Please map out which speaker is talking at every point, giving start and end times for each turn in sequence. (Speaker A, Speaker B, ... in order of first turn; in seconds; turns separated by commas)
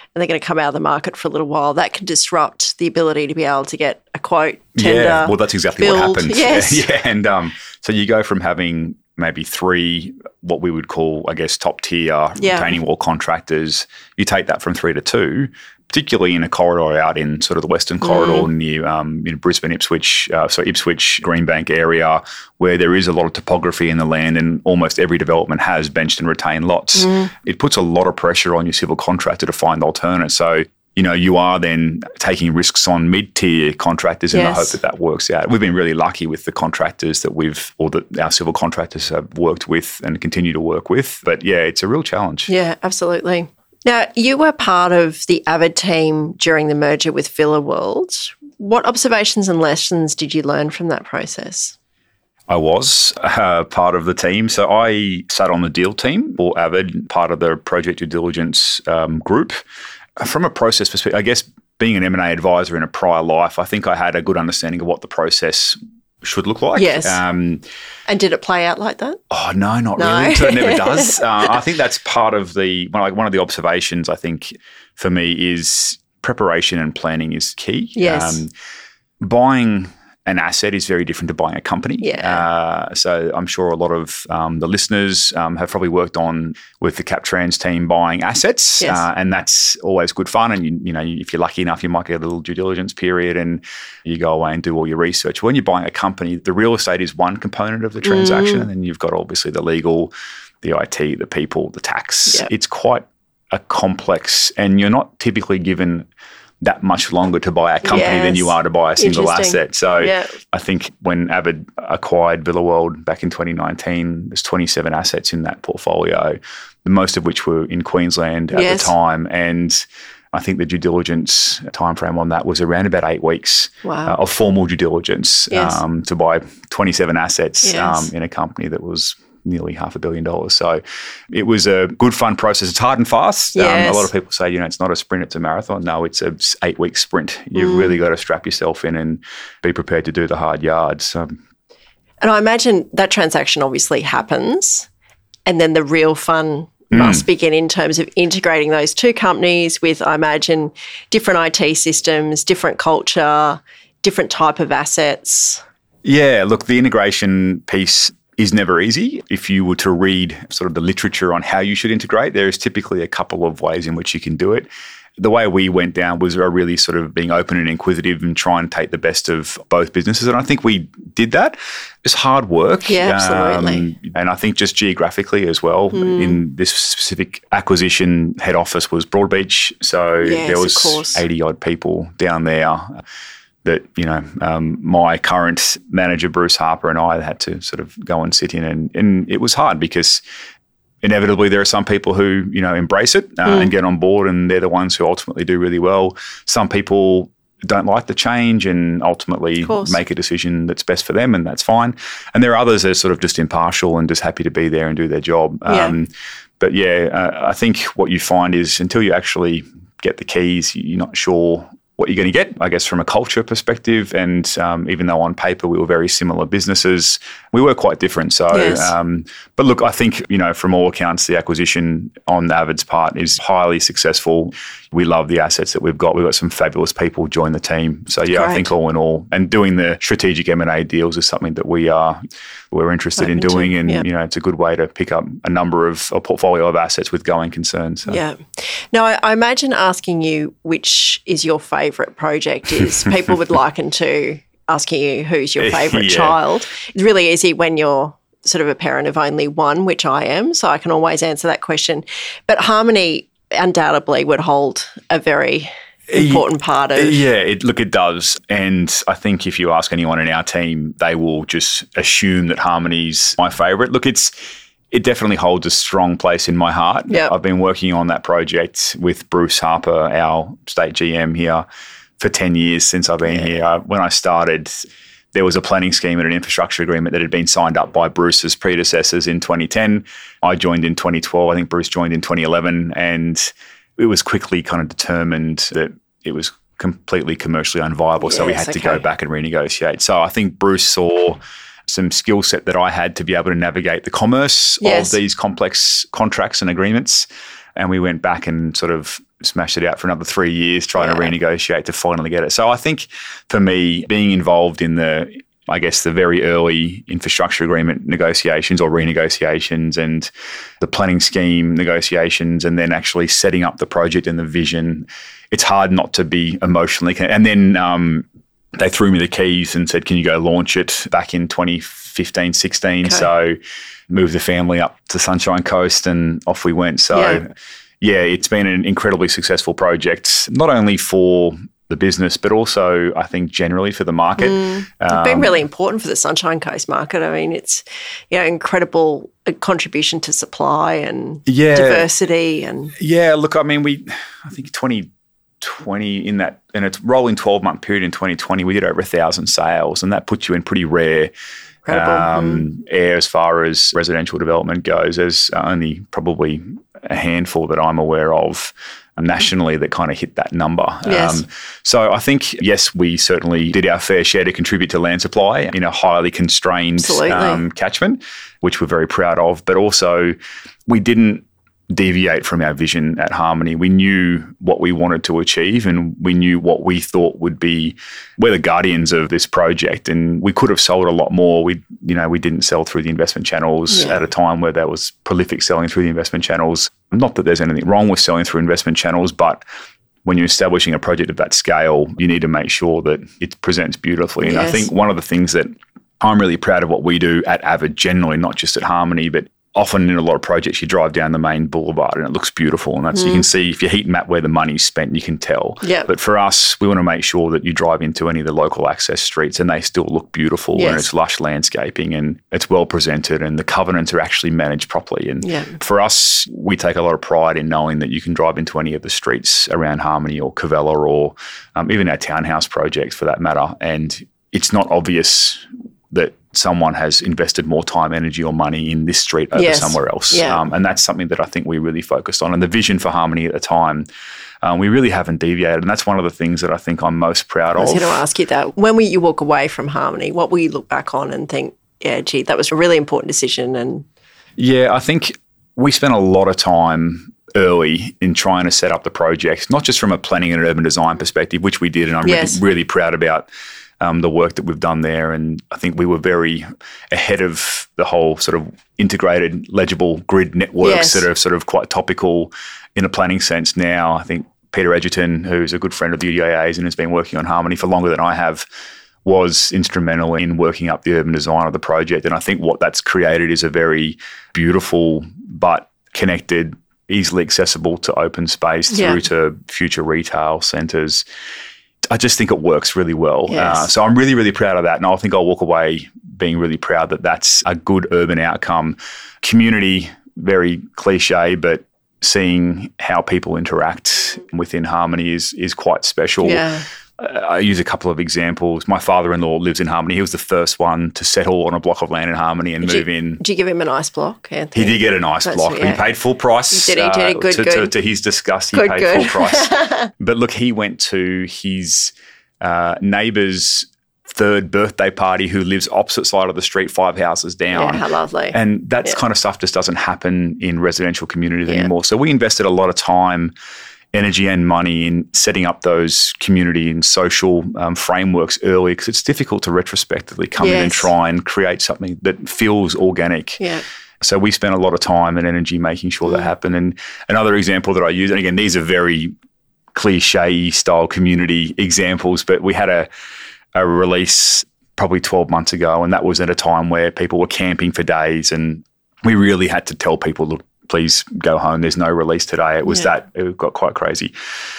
Speaker A: 0.1-6.8, Speaker B: 4.8-42.5, Speaker A: 12.4-12.7, Speaker A: 18.0-18.5, Speaker A: 27.0-27.3, Speaker A: 34.3-34.8, Speaker A: 42.5-51.7, Speaker B: 52.5-59.6, Speaker B: 60.2-67.6, Speaker A: 66.7-67.2, Speaker A: 68.1-69.2, Speaker B: 69.3-78.5, Speaker A: 70.0-71.3, Speaker A: 78.0-78.4, Speaker B: 79.2-106.1, Speaker A: 82.0-82.5, Speaker A: 88.8-89.0, Speaker A: 98.0-98.7, Speaker B: 106.6-141.4, Speaker A: 107.8-110.3, Speaker A: 118.5-118.9, Speaker A: 123.8-124.2, Speaker A: 125.5-125.8, Speaker A: 127.6-128.1, Speaker A: 133.5-134.1, Speaker A: 137.5-138.0, Speaker A: 142.2-144.9, Speaker A: 145.4-155.6, Speaker B: 146.9-147.2, Speaker B: 156.0-183.0, Speaker A: 172.8-173.9, Speaker A: 175.9-176.4, Speaker A: 180.2-181.2, Speaker B: 183.6-190.2, Speaker B: 191.0-232.2, Speaker A: 193.4-193.7, Speaker A: 199.6-200.0, Speaker A: 205.7-205.9, Speaker A: 218.5-218.9, Speaker A: 228.3-228.7, Speaker B: 232.7-238.2, Speaker A: 233.2-234.0, Speaker A: 238.1-257.2, Speaker B: 245.6-246.4, Speaker B: 256.1-264.3, Speaker B: 264.9-271.6, Speaker B: 272.2-274.7, Speaker B: 275.3-318.2, Speaker A: 288.2-289.0, Speaker A: 294.8-295.2, Speaker A: 301.0-301.3, Speaker B: 318.8-323.6, Speaker B: 324.1-327.5, Speaker A: 327.1-327.4, Speaker B: 328.0-335.6, Speaker A: 334.4-342.9, Speaker B: 341.4-342.1, Speaker B: 342.9-345.1, Speaker B: 345.6-351.3, Speaker A: 351.9-352.6, Speaker B: 351.9-370.4, Speaker A: 361.0-361.4, Speaker A: 367.0-367.6, Speaker B: 370.9-389.6, Speaker A: 383.9-384.2, Speaker B: 390.2-395.7, Speaker A: 394.4-394.9, Speaker B: 396.2-434.1, Speaker A: 403.1-403.4, Speaker A: 405.8-406.1, Speaker A: 410.7-411.1, Speaker A: 415.4-415.8, Speaker A: 429.6-430.6, Speaker B: 434.6-438.2, Speaker A: 437.8-444.1, Speaker B: 444.6-453.5, Speaker A: 452.2-452.6, Speaker B: 454.0-468.6, Speaker A: 460.8-461.2, Speaker B: 469.2-481.2, Speaker A: 478.9-479.2, Speaker B: 482.1-496.6, Speaker A: 483.5-483.9, Speaker A: 496.4-496.8, Speaker B: 497.2-503.4, Speaker A: 502.8-506.0, Speaker B: 504.7-523.5, Speaker A: 506.7-507.9, Speaker A: 508.7-510.1, Speaker A: 517.7-518.5, Speaker B: 524.1-533.6, Speaker A: 530.6-531.1, Speaker B: 534.2-539.3, Speaker B: 539.9-543.1, Speaker B: 543.7-554.3